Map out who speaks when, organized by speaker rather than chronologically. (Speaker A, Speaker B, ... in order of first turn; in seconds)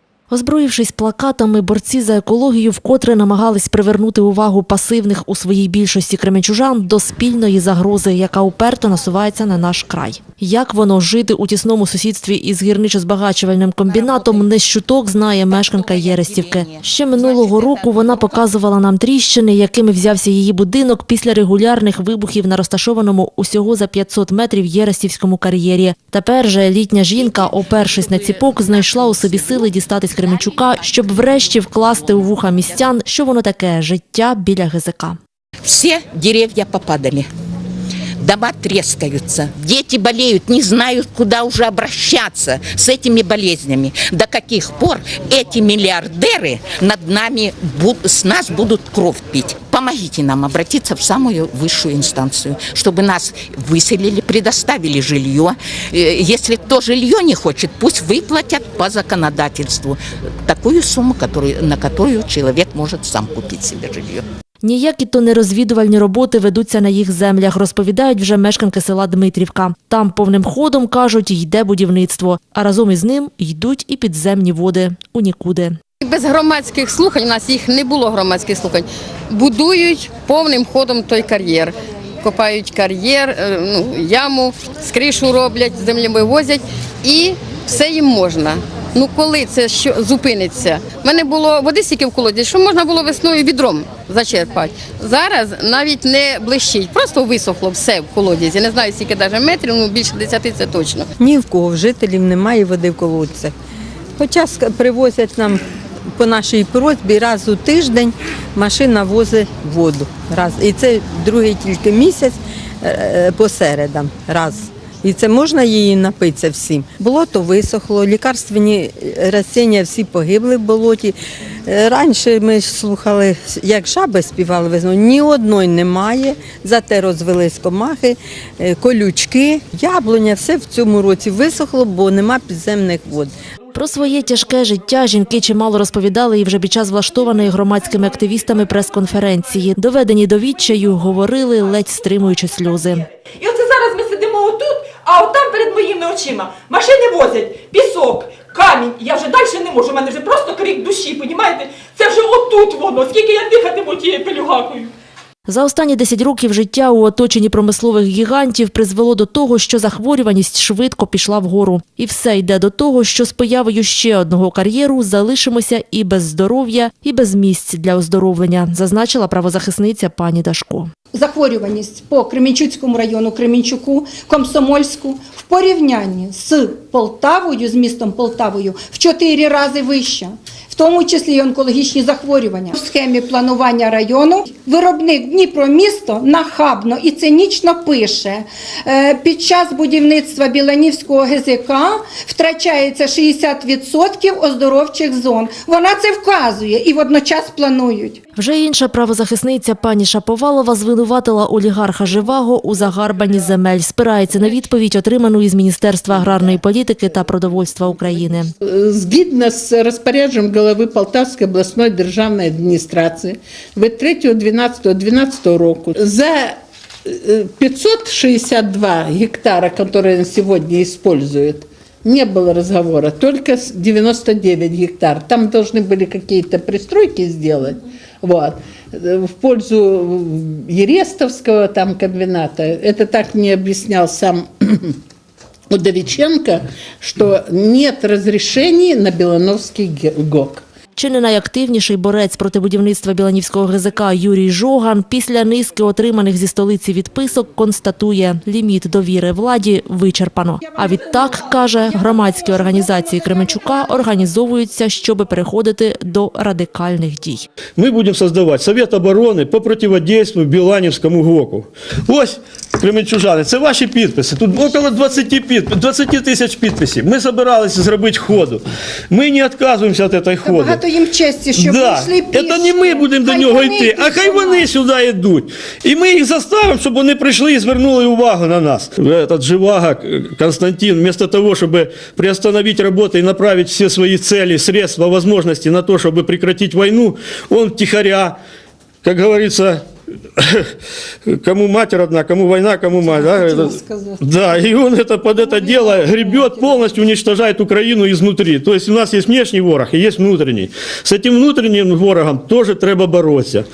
Speaker A: 0.3-35.2, 64.6-75.8, 133.8-143.1, 155.5-170.9, 198.4-208.5, 241.0-257.5
Speaker B: 13.8-14.5, 15.3-18.5, 35.6-37.3, 38.2-64.2
Speaker C: 76.0-101.1
Speaker D: 101.2-103.5, 104.2-105.6, 106.1-121.2, 121.7-133.3
Speaker E: 143.4-154.9
Speaker F: 171.1-198.2, 250.8-253.8, 270.4-274.7, 293.0-294.7, 295.3-297.1
Speaker G: 208.6-235.0, 235.7-240.6
Speaker H: 257.8-270.8, 271.6-288.4, 289.0-289.9, 290.4-290.7, 291.2-303.7